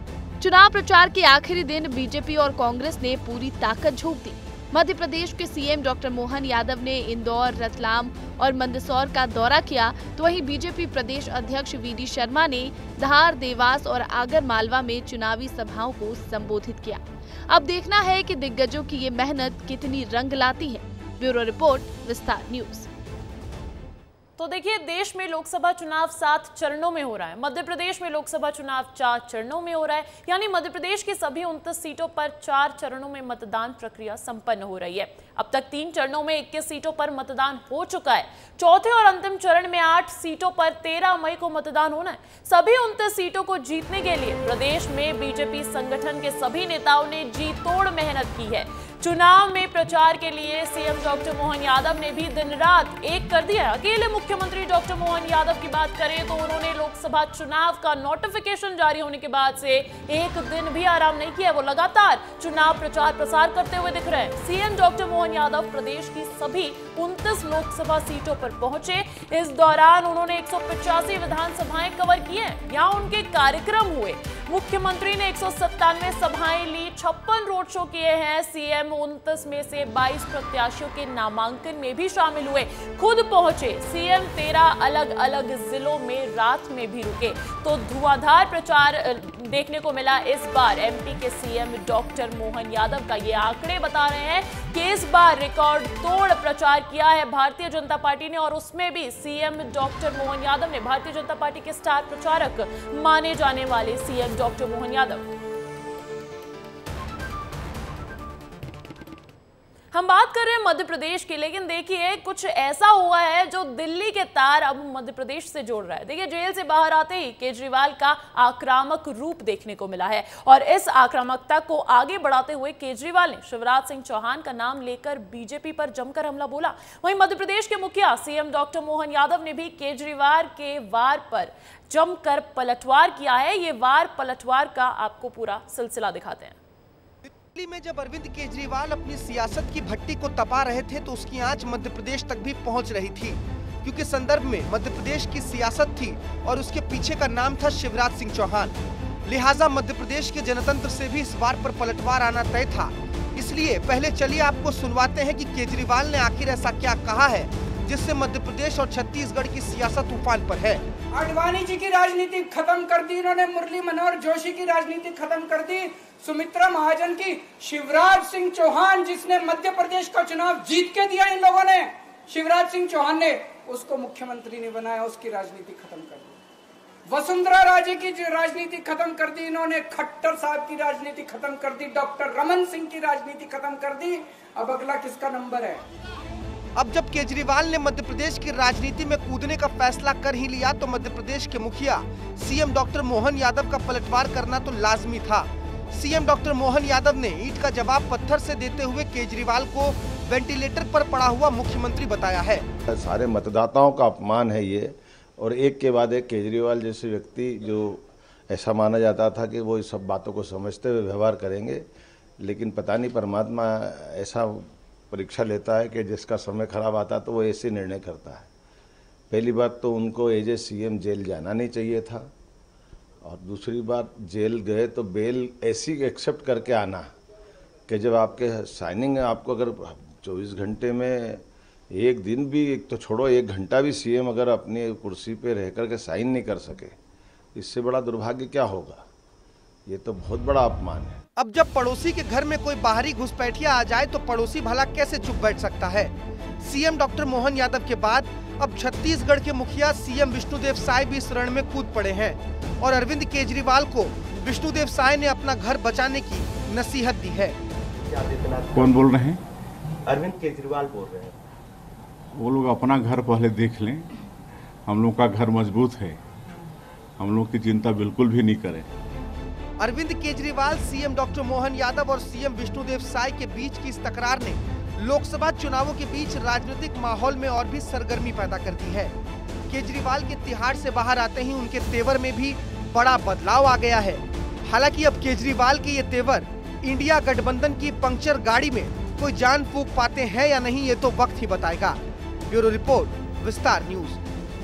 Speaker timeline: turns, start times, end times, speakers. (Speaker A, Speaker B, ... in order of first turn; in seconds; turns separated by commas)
Speaker A: 0.4-22.9, Speaker B: 24.4-105.2, Speaker B: 109.9-136.6, Speaker C: 137.2-160.8, Speaker D: 161.1-176.4, Speaker D: 177.1-185.8, Speaker C: 186.8-202.7, Speaker E: 202.9-211.9, Speaker E: 212.4-218.5, Speaker E: 219.3-222.3, Speaker E: 223.2-227.1, Speaker E: 227.9-236.9, Speaker E: 237.6-239.1, Speaker E: 239.9-241.2, Speaker C: 241.4-257.6, Speaker F: 257.9-258.9, Speaker G: 258.7-259.4, Speaker F: 260.1-261.4, Speaker G: 262.4-264.0, Speaker G: 264.9-266.2, Speaker G: 267.2-268.9, Speaker C: 269.8-279.1, Speaker C: 279.7-294.2